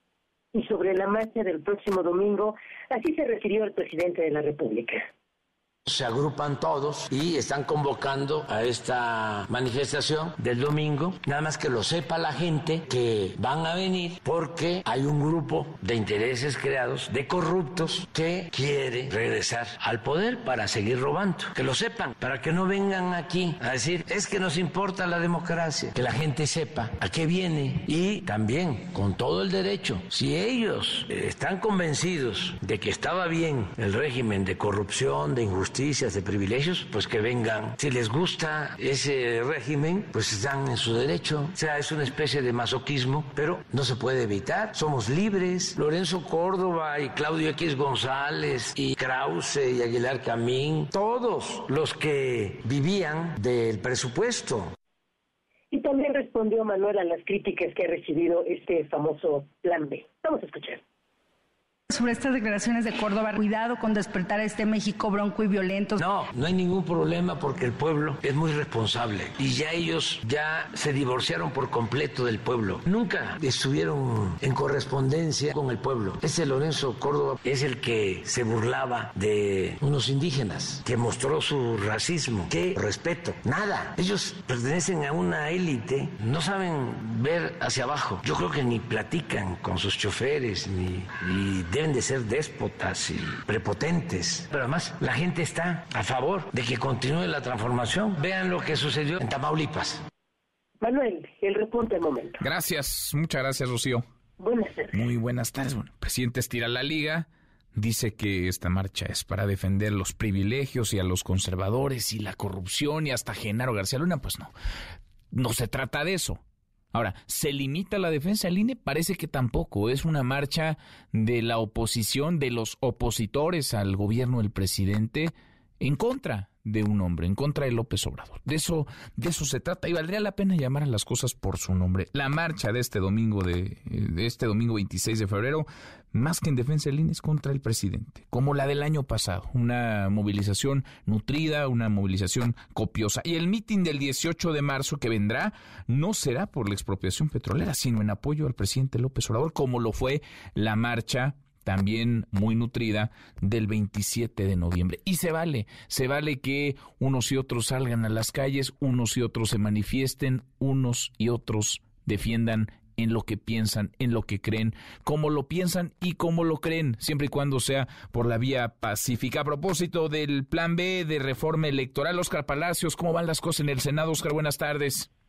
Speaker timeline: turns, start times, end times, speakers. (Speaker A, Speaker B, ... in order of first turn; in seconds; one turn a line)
Speaker A: 0.5-5.0
Speaker B: 5.8-54.7
Speaker A: 55.7-60.8
Speaker C: 61.9-66.0
Speaker B: 66.0-100.0
Speaker A: 100.8-102.4
Speaker D: 102.4-104.0
Speaker A: 104.4-105.0
Speaker D: 104.9-114.5
Speaker D: 115.3-116.4
Speaker D: 116.9-175.1